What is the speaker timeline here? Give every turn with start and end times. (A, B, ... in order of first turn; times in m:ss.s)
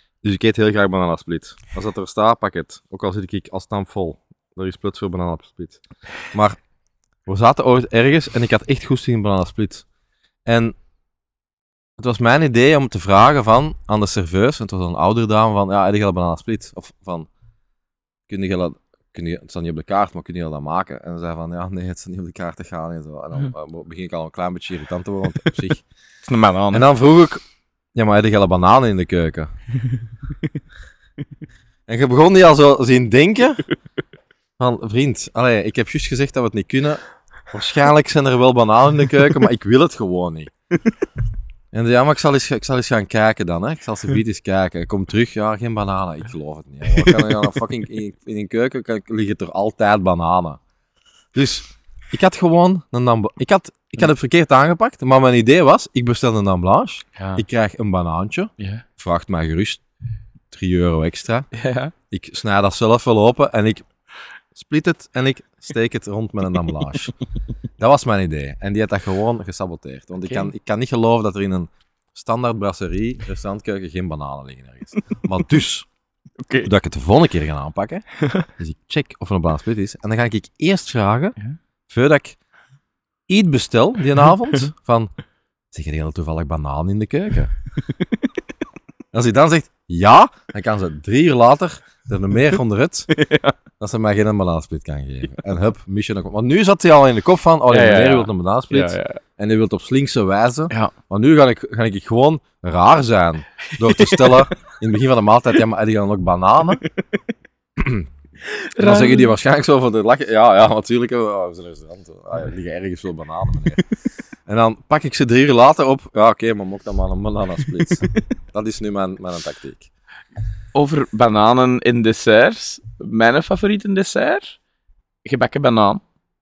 0:00.2-0:06.6 A
0:07.3-0:09.9 A
0:10.5-0:10.8 A
0:12.0-0:17.3 A
0:18.3-0:25.8 A
0:26.2-0:26.9 B
0:26.7-0:27.4 A
0:28.0-0:29.5 A
0:31.9-0:33.7 A
0:34.6-0:37.0 A
0:37.5-0:40.5 A
0:41.7-0:50.6 A
0:47.0-0:47.4 B
0:51.3-0:59.8 A
0:57.2-0:57.4 B
0:58.6-0:58.8 B
1:00.5-1:01.5 A
1:01.5-1:01.9 B
1:02.1-1:03.9 A
1:04.5-1:07.2 A
1:07.8-1:15.9 A
1:10.2-1:10.5 B
1:16.4-1:16.7 B
1:16.6-1:21.4 A
1:18.2-1:18.5 B
1:21.9-1:22.4 A
1:23.3-1:25.1 A
1:25.7-1:27.6 A
1:29.1-1:33.1 A
1:33.1-1:33.6 B
1:33.8-1:46.8 A
1:37.7-1:39.2 B
1:43.8-1:44.5 B
1:47.8-1:48.1 A
1:48.4-1:49.3 B
1:48.8-1:53.9 A
1:54.5-1:59.9 A
1:57.8-1:58.1 B
2:00.7-2:04.6 B
2:05.2-2:06.0 B